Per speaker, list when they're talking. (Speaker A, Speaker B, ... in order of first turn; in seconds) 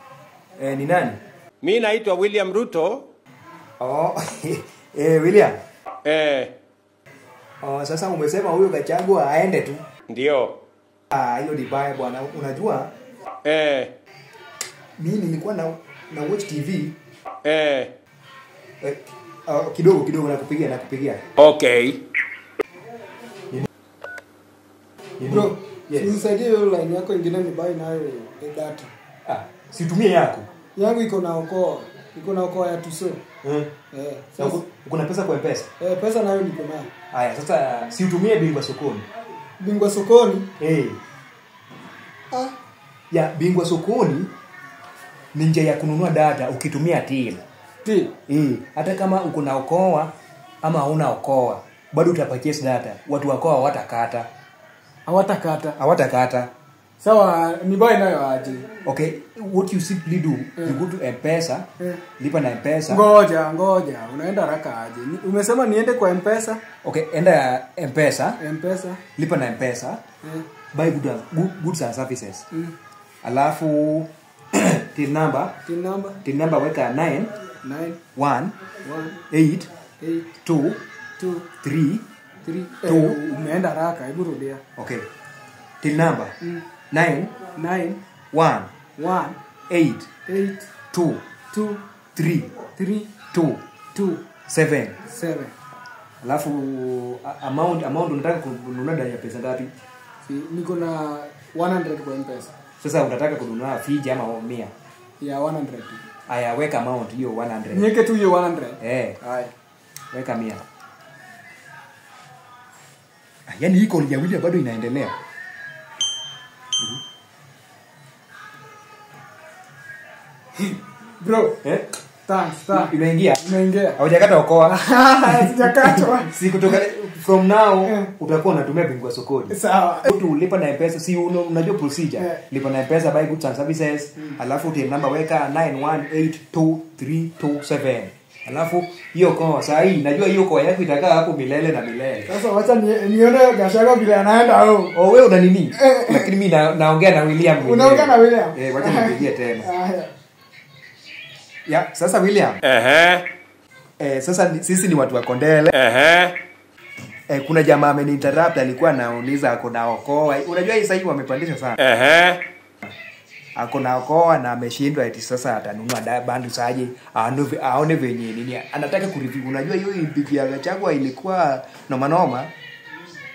Speaker A: 0.6-1.2, 3.8-5.6, 7.6-9.8, 11.1-12.9, 15.0-17.0, 18.8-21.2, 25.2-26.2, 29.2-30.5, 33.4-33.7, 34.4-35.7, 37.1-39.1, 40.6-41.0, 43.1-44.3, 45.3-47.4, 48.3-54.3, 55.8-56.5, 58.8-61.7, 62.2-63.0, 66.8-68.4, 69.2-70.0, 70.7-72.4, 73.2-75.5, 76.2-77.3, 78.2-78.6, 79.3-79.7, 80.4-80.8, 81.6-82.0, 82.8-83.2, 84.8-85.1, 85.8-86.3, 86.9-87.3, 88.3-88.7, 89.7-90.1, 90.9-91.2, 92.2-92.5, 93.3-93.6, 94.5-95.0, 96.2-99.7, 102.8-104.7, 106.3-107.9, 108.8-109.2, 110.1-110.6, 113.5-115.2, 122.7-123.4, 124.0-142.4, 144.9-149.7, 151.7-152.6, 154.0-155.7, 157.3-161.8, 163.6-172.5
Speaker B: 1.6-3.1, 6.0-6.5, 10.1-10.6, 13.4-13.9, 17.4-17.9, 21.4-22.0, 152.6-153.2, 155.7-156.3, 161.8-162.4
Speaker C: 25.2-28.9, 30.8-33.2, 33.9-34.6, 35.8-36.9, 39.6-40.5, 47.8-48.1, 55.1-55.8, 57.0-58.7, 62.9-66.6, 68.4-69.0, 70.2-70.5, 75.6-76.2, 77.6-78.0, 78.8-79.2, 80.0-80.3, 81.2-81.5, 82.4-84.6, 87.5-88.0, 89.0-89.4, 90.3-90.7, 91.5-91.8, 92.8-93.1, 93.9-94.2, 95.1-95.5, 100.2-102.5, 105.2-106.0, 107.7-109.5, 120.6-121.6, 122.3-124.0, 124.7-126.3, 129.5-130.1, 142.3-144.9, 145.7-146.3, 147.6-150.1